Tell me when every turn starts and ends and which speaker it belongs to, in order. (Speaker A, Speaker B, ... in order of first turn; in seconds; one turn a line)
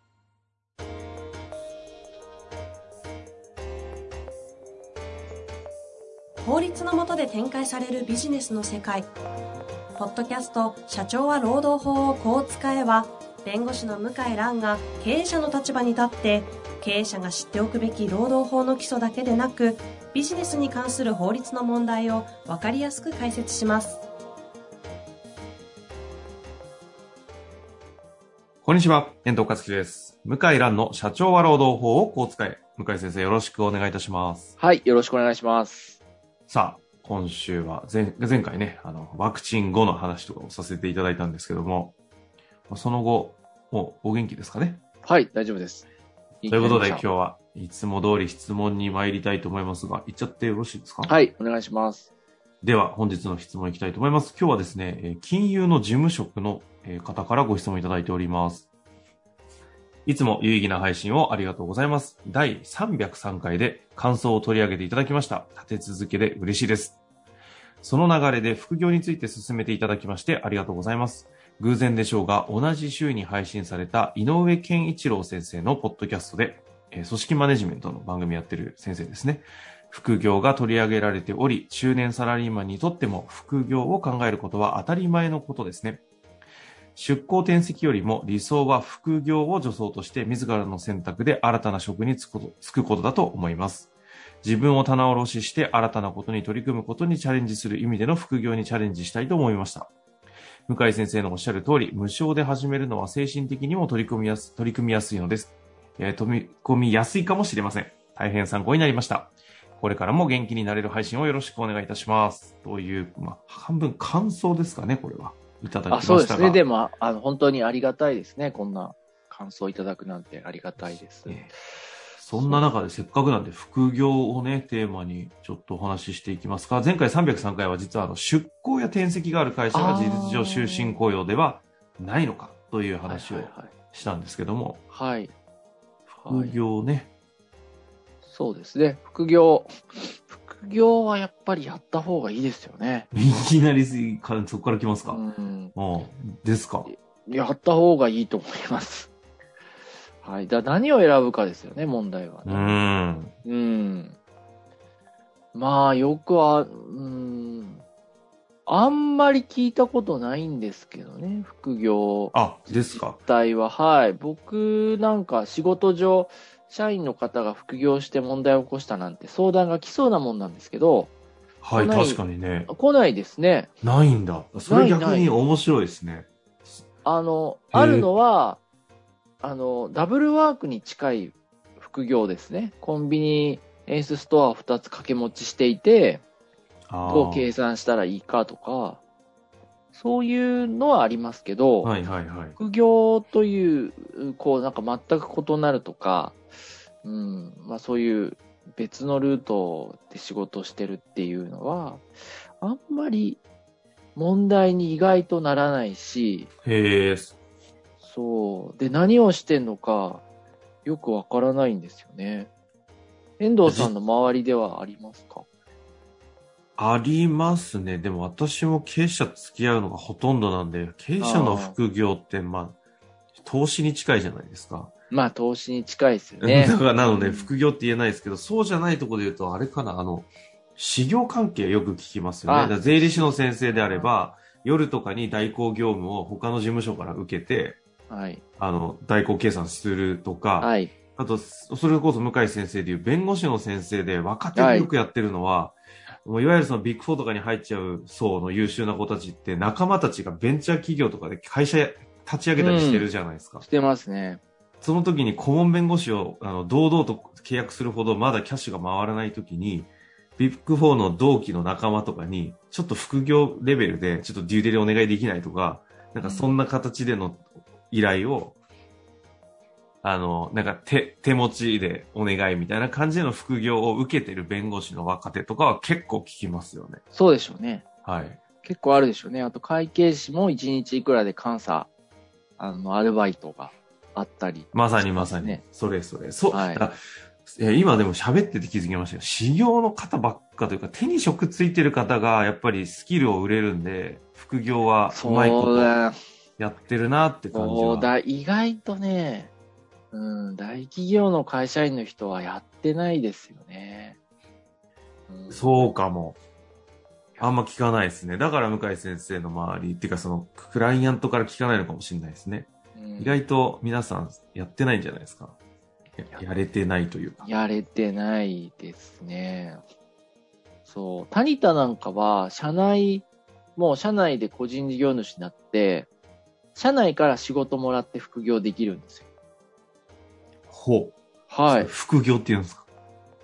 Speaker A: 6.4-9.1
Speaker A: 10.0-24.0
Speaker B: 28.6-34.5
Speaker C: 34.6-36.0
Speaker B: 36.5-42.0
Speaker B: 42.7-44.8
Speaker C: 45.0-45.9
Speaker C: 46.4-47.0
Speaker B: 46.5-51.1
Speaker C: 51.0-52.1
Speaker B: 52.6-58.7
Speaker B: 60.0-67.0
Speaker B: 67.8-86.0
Speaker B: 86.9-99.9
Speaker B: 100.7-116.6
Speaker C: 115.9-121.4
Speaker B: 120.8-121.5
Speaker B: 122.2-134.8
Speaker C: 122.3-122.6
Speaker C: 129.7-131.0
Speaker C: 133.1-133.7
Speaker C: 134.9-135.3
Speaker C: 136.1-136.6
Speaker B: 136.3-137.1
Speaker C: 138.2-143.1
Speaker B: 143.1-145.2
Speaker C: 145.1-145.7
Speaker B: 145.7-146.9
Speaker C: 146.8-149.1
Speaker C: 150.2-152.8
Speaker B: 152.4-153.3
Speaker C: 153.4-154.1
Speaker C: 155.5-157.8
Speaker C: 158.7-171.1
Speaker B: 162.3-163.2
Speaker B: 171.6-172.7
Speaker C: 171.7-173.7
Speaker B: 173.8-176.8
Speaker C: 174.7-175.3
Speaker C: 177.0-178.6
Speaker B: 177.7-178.1
Speaker C: 179.4-186.2
Speaker B: 186.9-187.5
Speaker C: 187.0-189.0
Speaker C: 189.9-191.9
Speaker B: 191.8-192.6
Speaker C: 192.6-196.4
Speaker C: 197.0-202.1
Speaker C: 202.6-203.4
Speaker C: 204.1-206.5
Speaker B: 206.6-207.3
Speaker C: 208.0-210.2
Speaker C: 210.8-212.5
Speaker C: 213.4-215.4
Speaker B: 213.6-213.9
Speaker B: 216.8-222.8
Speaker C: 221.2-221.8
Speaker B: 223.4-224.9
Speaker C: 225.1-227.5
Speaker B: 226.4-237.8
Speaker C: 232.4-234.1
Speaker C: 238.1-238.4
Speaker B: 238.6-253.6
Speaker C: 240.6-240.9
Speaker C: 244.5-244.9
Speaker C: 252.6-253.1
Speaker C: 253.6-254.4
Speaker B: 254.8-268.6
Speaker C: 266.2-266.6
Speaker B: 270.0-277.0
Speaker C: 277.1-277.8
Speaker B: 278.0-278.4
Speaker C: 278.6-281.9
Speaker C: 282.6-285.6
Speaker B: 284.7-295.9
Speaker C: 286.5-286.9
Speaker C: 295.1-296.1
Speaker B: 296.6-298.1
Speaker C: 297.5-299.5
Speaker C: 300.1-304.2
Speaker C: 305.3-305.9
Speaker B: 305.5-306.4
Speaker B: 307.4-315.6
Speaker C: 312.9-313.4
Speaker B: 316.2-317.4
Speaker C: 317.4-319.8
Speaker C: 320.9-326.1
Speaker C: 326.7-329.2
Speaker B: 330.7-331.2
Speaker C: 331.5-331.9
Speaker B: 331.7-332.9